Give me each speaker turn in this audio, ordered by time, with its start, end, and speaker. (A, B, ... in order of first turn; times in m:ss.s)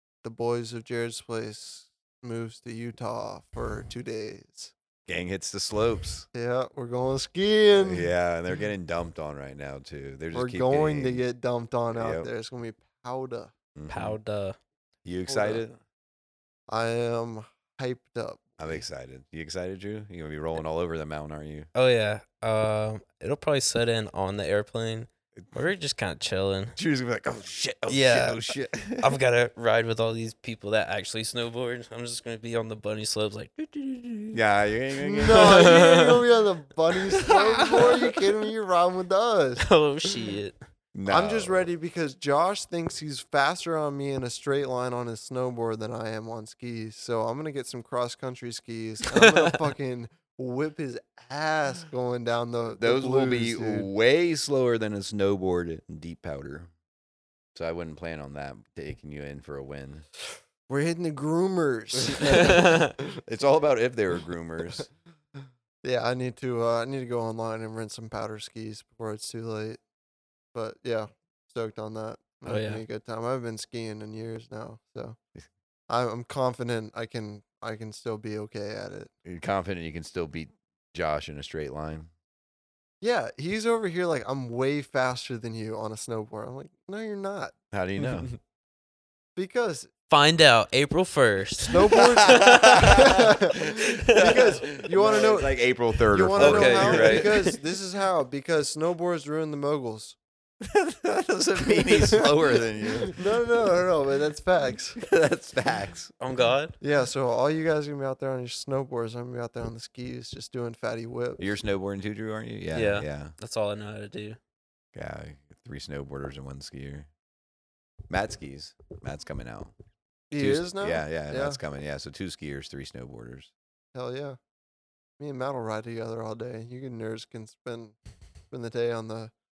0:00.2-0:04.7 A
0:05.1-0:06.3 B
0:06.3-0:08.1 A
0:07.8-0:11.2 B
0:10.3-0:13.5 A
0:11.9-0:12.3 B
0:13.7-0:14.2 B
0:13.9-0:14.6 C
0:15.0-0:15.8 B
0:15.3-0:15.6 A
0:16.7-0:18.8 A
0:18.6-0:21.7 B
0:21.7-0:26.8 C
0:26.8-0:29.1 B
0:27.9-0:34.4 C
0:34.3-0:35.7 B
0:35.0-0:39.6 A
0:35.3-0:36.2 C
0:37.2-0:37.9 C
0:39.6-0:40.6 C
0:40.9-0:41.7 B
0:41.1-0:53.9 A
0:49.0-0:49.6 C
0:52.8-0:56.7 B
0:57.5-1:00.0 B
1:00.7-1:03.0 A
1:02.2-1:02.9 C
1:03.2-1:04.9 B
1:05.8-1:09.8 A
1:10.5-1:15.2 A
1:12.4-1:12.8 C
1:15.9-1:19.1 A
1:19.2-1:22.1 B
1:23.0-1:27.5 A
1:27.7-1:28.3 B
1:28.0-1:28.3 C
1:29.4-1:29.9 A
1:30.1-1:33.1 C
1:31.6-1:33.6 A
1:31.9-1:37.3 B
1:34.1-1:34.4 C
1:34.1-1:35.5 A
1:36.1-1:40.2 A
1:36.4-1:37.6 C
1:40.6-1:43.2 B
1:41.8-1:42.2 A
1:43.1-1:45.0 A
1:45.0-1:46.1 B
1:46.2-1:46.8 C
1:46.8-1:51.5 A
1:51.4-1:53.3 B
1:52.7-1:54.4 C
1:54.9-1:57.1 B
1:58.1-1:59.7 B
2:00.3-2:01.6 A
2:00.4-2:03.5 B
2:03.9-2:04.4 A
2:05.2-2:08.0 A
2:08.5-2:09.3 A